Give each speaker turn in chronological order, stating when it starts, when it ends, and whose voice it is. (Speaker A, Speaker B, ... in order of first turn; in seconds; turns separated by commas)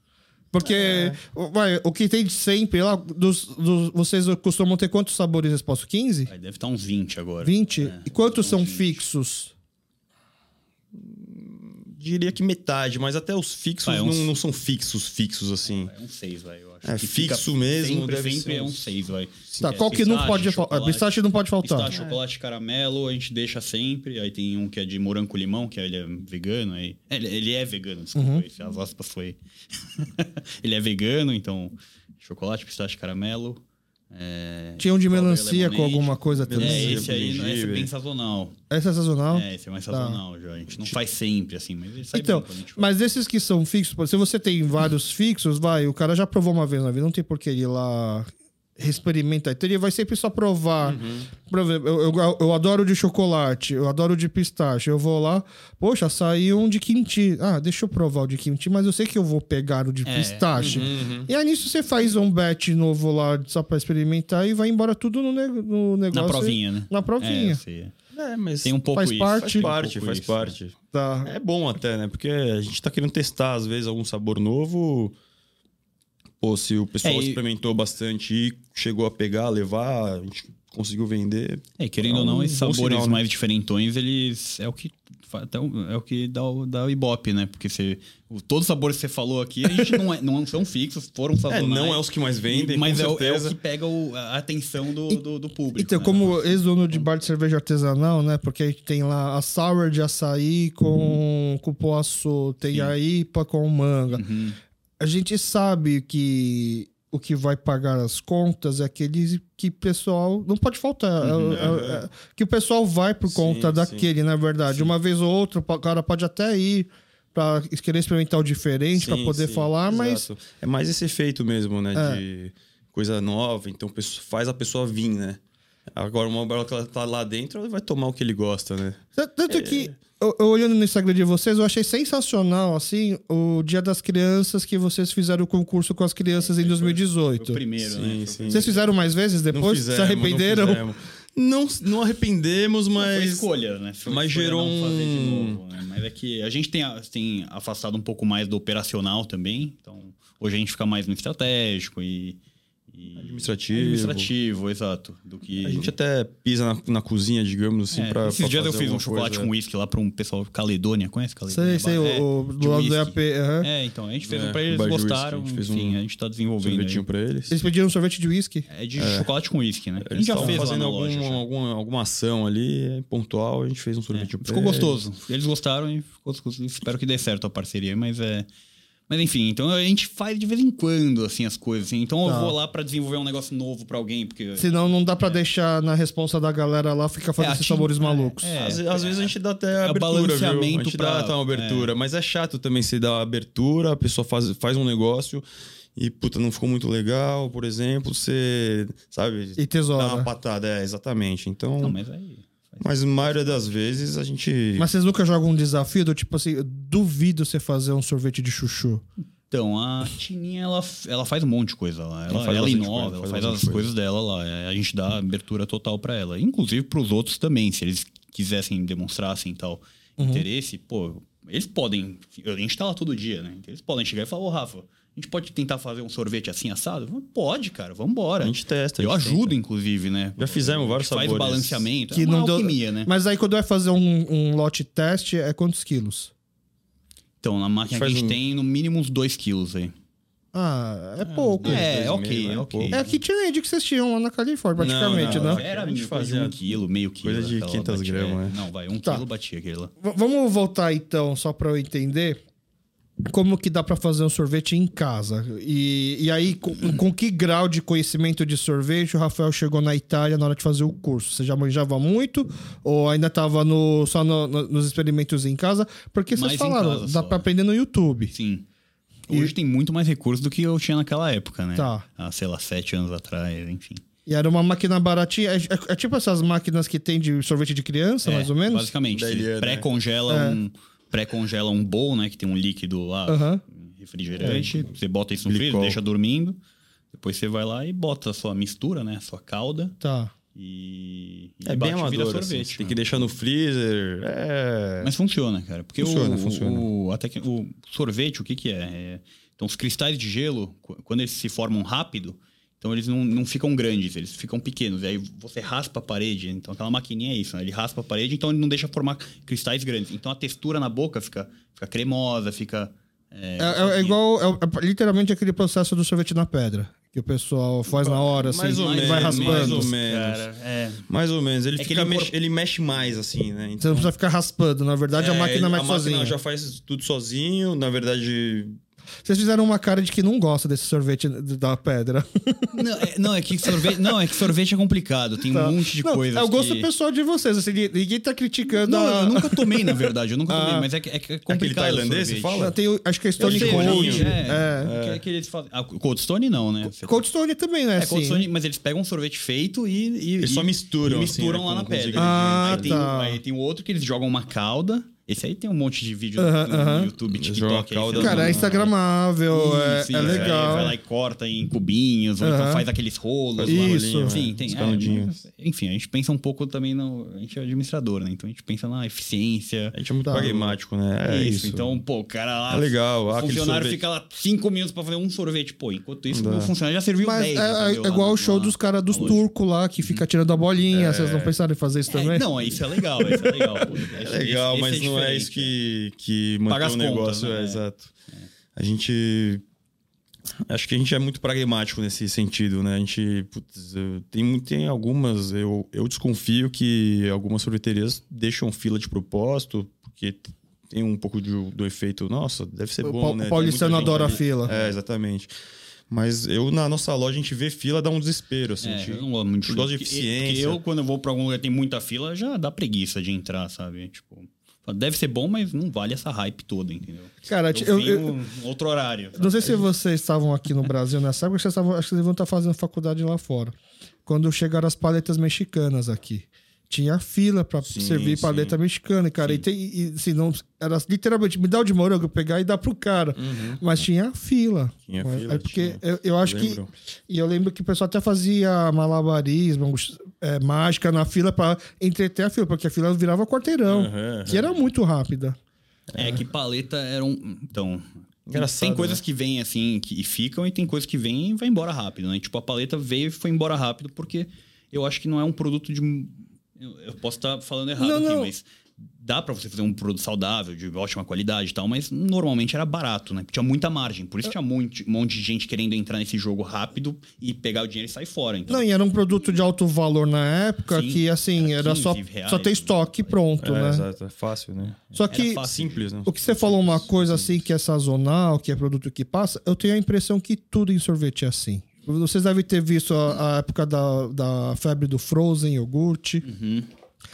Speaker A: 0.5-6.3, Speaker B: 0.6-1.2, Speaker C: 6.3-9.0, Speaker A: 7.4-9.5, Speaker B: 10.9-15.9, Speaker C: 13.8-14.3, Speaker C: 15.6-38.5, Speaker B: 16.8-18.8, Speaker B: 19.5-20.0, Speaker A: 19.6-21.9, Speaker B: 21.9-22.2, Speaker A: 28.1-28.4, Speaker A: 34.8-37.1, Speaker B: 36.5-37.9, Speaker A: 38.7-40.2, Speaker C: 39.3-42.9, Speaker A: 42.1-67.6, Speaker B: 50.8-51.3, Speaker C: 60.0-60.8, Speaker B: 60.5-61.3, Speaker C: 66.1-67.9, Speaker B: 68.1-75.2, Speaker C: 68.6-70.5, Speaker A: 68.9-69.7, Speaker A: 70.9-71.3, Speaker B: 76.4-83.2, Speaker C: 77.0-77.4, Speaker C: 81.8-97.0, Speaker B: 91.5-93.5, Speaker A: 95.8-104.2, Speaker C: 104.1-104.6, Speaker A: 105.0-120.2, Speaker C: 111.2-111.8, Speaker B: 111.5-112.0, Speaker B: 113.2-114.1, Speaker B: 118.9-125.4, Speaker A: 121.9-122.2, Speaker B: 125.9-129.9, Speaker A: 129.2-137.6, Speaker C: 136.3-138.8, Speaker B: 137.8-138.7, Speaker A: 138.5-140.8, Speaker B: 139.5-143.5, Speaker C: 143.0-152.4, Speaker B: 144.0-145.6, Speaker C: 152.9-155.9, Speaker B: 153.2-154.3, Speaker B: 155.6-159.5, Speaker C: 157.9-167.0, Speaker A: 161.5-163.7, Speaker B: 164.3-166.0, Speaker B: 166.6-167.6, Speaker A: 167.5-168.7, Speaker C: 168.7-171.4, Speaker B: 168.9-169.3, Speaker B: 170.0-175.0, Speaker A: 170.4-170.6, Speaker C: 174.1-178.5, Speaker C: 179.1-185.4, Speaker A: 182.2-182.5, Speaker A: 184.6-188.5, Speaker C: 187.4-191.9, Speaker B: 188.6-195.4, Speaker B: 195.9-202.0, Speaker A: 199.6-200.3, Speaker C: 201.8-203.7, Speaker B: 202.8-204.9, Speaker A: 204.8-209.0, Speaker C: 209.5-233.1, Speaker B: 212.3-213.9, Speaker A: 220.2-220.4, Speaker B: 228.4-229.5, Speaker B: 230.4-231.9, Speaker A: 232.1-236.3, Speaker C: 237.4-239.9, Speaker B: 237.9-238.4, Speaker A: 240.5-241.9, Speaker B: 241.2-243.0, Speaker C: 241.6-243.2, Speaker A: 242.9-245.6, Speaker B: 244.8-248.6, Speaker C: 245.1-249.9, Speaker A: 250.0-252.4, Speaker A: 253.2-268.3, Speaker C: 266.3-267.5, Speaker C: 268.3-268.6, Speaker C: 269.3-274.0, Speaker A: 271.7-272.0, Speaker A: 274.2-278.9, Speaker C: 278.2-286.6, Speaker B: 279.1-279.9, Speaker A: 280.3-280.6, Speaker A: 283.3-283.6, Speaker A: 284.4-284.7, Speaker B: 285.4-286.0, Speaker C: 287.1-290.0, Speaker A: 290.0-290.3, Speaker C: 290.5-293.3, Speaker B: 291.6-295.1, Speaker C: 295.0-314.2, Speaker B: 296.0-296.9, Speaker A: 313.6-319.9, Speaker B: 317.9-320.4, Speaker C: 318.7-321.1, Speaker B: 321.1-324.1, Speaker C: 321.8-322.3, Speaker A: 323.8-326.4, Speaker B: 325.1-328.8, Speaker A: 329.2-332.8, Speaker C: 332.7-336.9, Speaker A: 333.6-334.1, Speaker A: 335.5-340.9, Speaker C: 338.8-342.7, Speaker B: 341.5-342.7, Speaker A: 342.6-344.9, Speaker B: 343.4-345.2, Speaker C: 343.4-347.2, Speaker A: 346.9-348.4, Speaker C: 347.9-358.9, Speaker B: 350.4-353.0, Speaker A: 352.1-353.4, Speaker A: 356.4-357.1, Speaker B: 357.3-358.9, Speaker A: 358.1-360.9, Speaker C: 359.5-370.7, Speaker B: 360.1-360.9, Speaker A: 362.4-362.9, Speaker B: 363.6-365.4, Speaker A: 363.7-364.4, Speaker B: 369.9-372.0, Speaker A: 370.2-370.5, Speaker C: 371.2-379.4, Speaker B: 372.7-374.0, Speaker B: 376.3-376.7, Speaker A: 377.2-382.5, Speaker B: 380.9-381.6, Speaker C: 382.1-385.7, Speaker B: 383.3-388.1, Speaker C: 386.7-388.5, Speaker B: 388.8-389.6, Speaker B: 390.7-405.5, Speaker A: 403.0-404.7, Speaker C: 403.5-405.0, Speaker B: 406.1-410.8, Speaker C: 408.8-419.9, Speaker A: 417.4-418.4, Speaker A: 419.4-423.7, Speaker A: 424.2-445.6, Speaker B: 427.8-428.8, Speaker B: 433.4-433.8, Speaker B: 435.1-436.9, Speaker B: 443.8-444.7, Speaker B: 446.1-446.4, Speaker C: 446.1-468.9, Speaker B: 448.5-449.2, Speaker A: 458.0-458.5, Speaker A: 468.7-474.1, Speaker C: 470.9-473.4, Speaker B: 473.6-477.6, Speaker A: 475.1-475.6, Speaker C: 475.3-476.0, Speaker A: 476.2-486.4, Speaker C: 486.4-486.9